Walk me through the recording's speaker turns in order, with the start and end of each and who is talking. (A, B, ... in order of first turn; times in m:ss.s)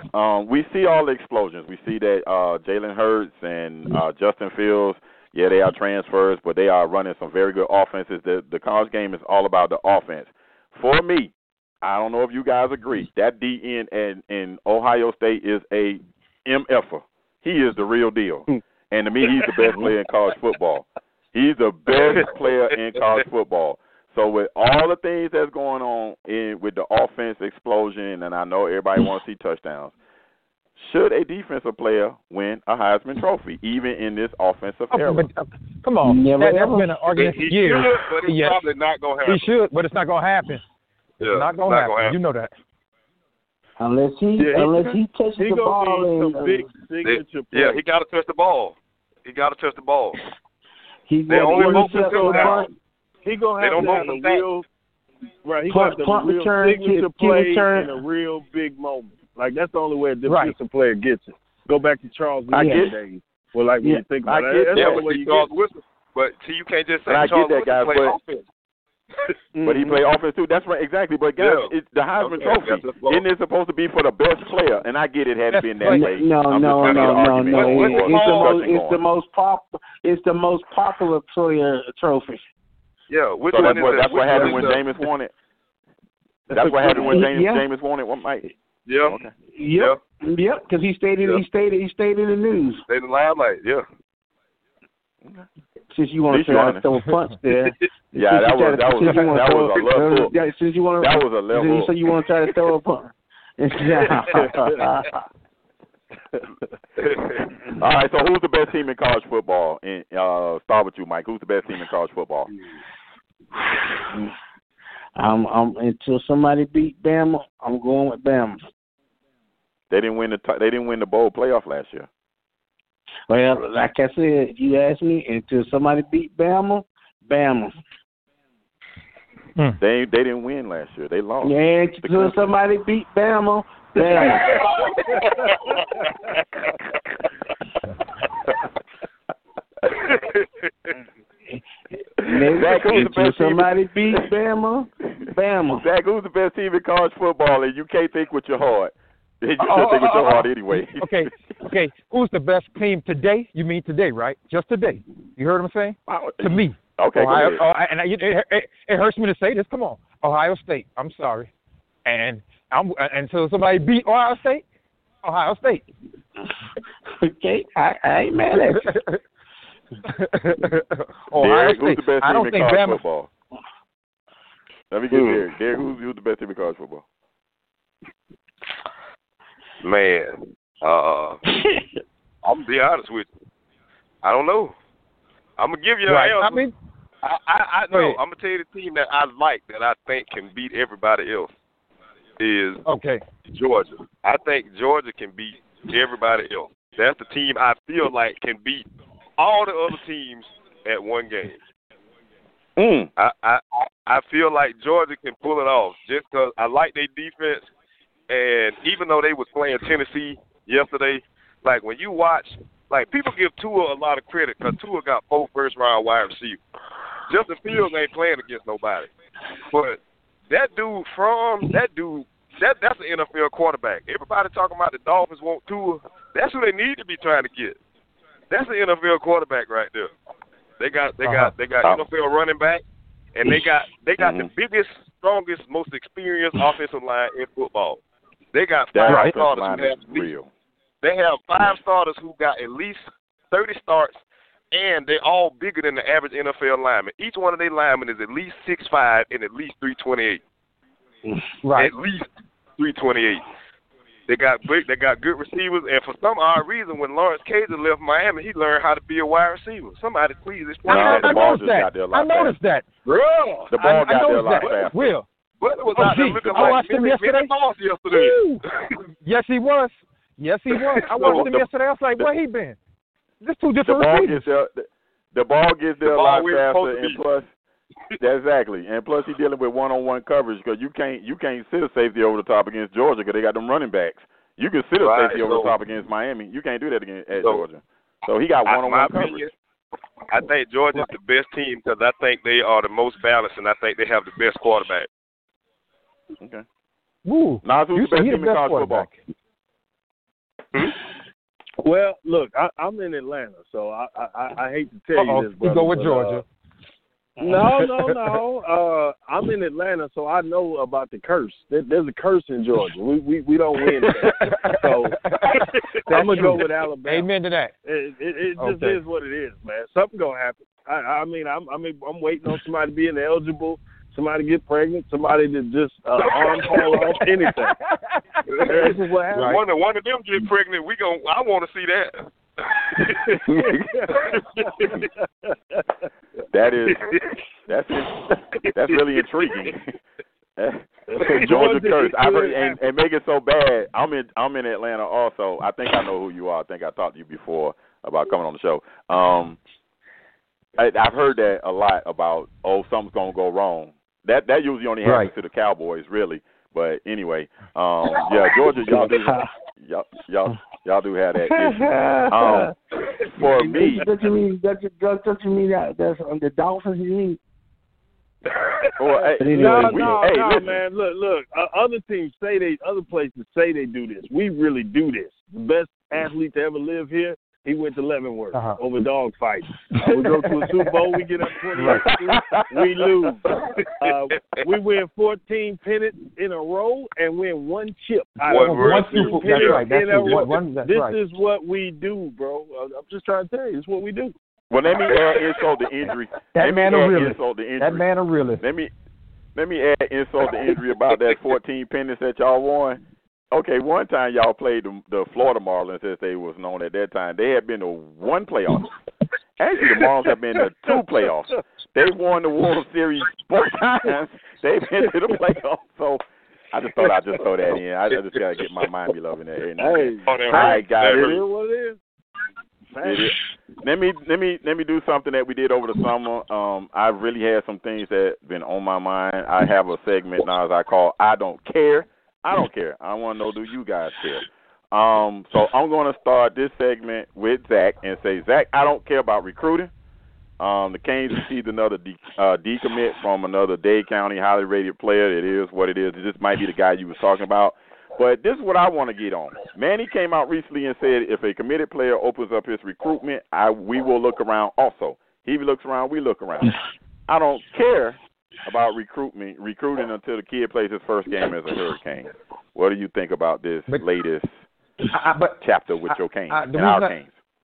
0:00.1-0:29.9 A
0:30.8-0:35.3 A
0:34.9-0:38.6 B
0:36.0-0:36.9 C
0:37.1-0:39.5 D
0:39.2-0:40.6 B
0:41.2-0:42.2 D
0:41.2-0:42.5 B
0:43.8-0:46.6 C
0:44.4-0:47.8 E
0:44.7-0:45.0 A
0:47.0-0:50.2 D
0:51.1-0:52.7 C
0:51.3-0:52.7 D
0:51.5-0:52.7 E
0:53.2-0:54.7 E
0:53.6-0:54.4 D
0:55.4-1:05.5 E
0:55.7-0:58.0 C
1:00.3-1:00.6 B
1:02.5-1:02.9 A
1:02.6-1:02.9 C
1:04.2-1:05.1 A
1:04.8-1:08.4 D
1:07.1-1:08.2 A
1:09.6-1:10.0 C
1:09.6-1:19.0 A
1:11.4-1:13.2 D
1:15.5-1:16.1 B
1:15.8-1:22.4 C
1:16.8-1:18.6 D
1:23.1-1:24.8 D
1:23.5-1:25.3 A
1:26.5-1:28.4 A
1:26.5-1:27.7 C
1:28.9-1:29.2 D
1:29.0-1:29.3 A
1:29.5-1:32.8 C
1:32.9-1:33.8 D
1:35.9-1:45.1 C
1:36.3-1:36.8 A
1:38.1-1:40.3 A
1:41.0-1:41.9 A
1:44.2-1:44.5 A
1:47.0-1:47.4 D
1:47.8-1:52.5 A
1:55.2-1:58.6 C
1:59.9-2:02.1 A
2:03.3-2:07.7 C
2:09.8-2:12.5 A
2:11.4-2:14.6 C
2:15.2-2:16.0 D
2:20.0-2:20.5 D
2:22.2-2:25.8 C
2:22.3-2:23.7 A
2:25.8-2:31.3 A
2:29.6-2:41.5 B
2:36.1-2:37.6 A
2:42.0-2:44.6 B
2:45.2-2:45.9 B
2:47.2-2:48.9 C
2:48.6-2:49.2 B
2:50.1-2:53.0 B
2:51.4-2:53.3 A
2:54.9-2:57.0 A
2:55.1-2:55.4 D
2:59.8-3:01.4 D
3:02.4-3:03.3 D
3:04.2-3:04.7 D
3:05.6-3:06.6 D
3:06.1-3:06.7 B
3:07.2-3:11.5 D
3:07.9-3:08.2 B
3:12.4-3:12.8 D
3:12.9-3:13.2 B
3:13.5-3:18.9 D
3:19.4-3:21.6 D
3:22.8-3:23.1 A
3:23.2-3:27.7 D
3:28.3-3:36.6 D
3:37.3-3:39.1 D
3:39.7-3:40.0 D
3:40.5-3:47.8 D
3:48.5-3:50.1 D
3:50.8-3:52.8 D
3:51.2-3:51.5 B
3:53.4-3:58.0 D
3:54.2-3:54.5 A
3:58.5-4:00.3 D
3:58.9-4:00.5 A
3:59.1-3:59.3 B
4:01.0-4:04.2 D
4:04.7-4:10.4 D
4:11.6-4:11.9 B
4:11.8-4:13.5 D
4:14.3-4:21.6 D
4:20.9-4:22.6 A
4:20.9-4:22.8 B
4:23.0-4:23.7 D
4:23.7-4:25.1 A
4:23.8-4:25.3 B
4:24.6-4:24.9 D
4:25.6-4:29.0 D
4:25.9-4:27.5 B
4:26.5-4:26.8 A
4:28.1-4:28.6 B
4:29.2-4:32.8 B
4:30.9-4:31.5 D
4:31.2-4:31.7 A
4:33.4-4:34.4 B
4:33.8-4:37.5 A
4:36.0-4:37.2 D
4:38.2-4:49.5 A
4:45.0-4:45.7 D
4:48.6-4:49.5 D
4:50.3-4:55.1 D
4:57.2-4:59.2 B
4:57.6-4:59.1 A
5:01.8-5:06.4 E
5:05.1-5:06.4 B
5:07.4-5:15.2 E
5:07.8-5:08.1 B
5:14.2-5:17.8 B
5:16.1-5:17.3 E
5:17.8-5:27.8 E
5:18.6-5:19.0 B
5:26.4-5:27.1 D
5:28.5-5:33.4 D
5:28.7-5:29.6 E
5:29.3-5:29.6 B
5:33.5-5:35.8 E
5:33.5-5:33.8 A
5:34.2-5:35.0 D
5:36.5-5:37.2 A
5:37.0-5:37.3 D
5:37.7-5:40.0 A
5:38.6-5:39.7 D
5:40.6-5:49.6 A
5:41.1-5:42.7 E
5:50.8-6:02.7 A
5:55.0-5:55.3 B
5:58.2-5:59.5 C
6:01.5-6:02.7 C
6:03.4-6:04.1 A
6:03.4-6:07.4 C
6:09.0-6:10.8 A
6:09.4-6:10.3 C
6:09.5-6:23.4 E
6:18.5-6:18.8 B
6:20.1-6:20.9 B
6:21.8-6:22.2 B
6:21.9-6:23.0 A
6:24.0-6:34.4 E
6:28.4-6:31.2 B
6:28.5-6:30.5 D
6:34.7-6:38.1 A
6:36.6-6:38.6 B
6:38.6-6:38.9 A
6:39.6-6:43.0 A
6:43.5-6:48.9 A
6:49.6-7:01.4 A
6:59.8-7:02.0 E
7:00.3-7:01.4 D
7:02.9-7:03.3 E
7:03.0-7:19.9 A
7:20.6-7:44.5 A
7:45.1-7:47.2 B
7:45.6-7:47.3 A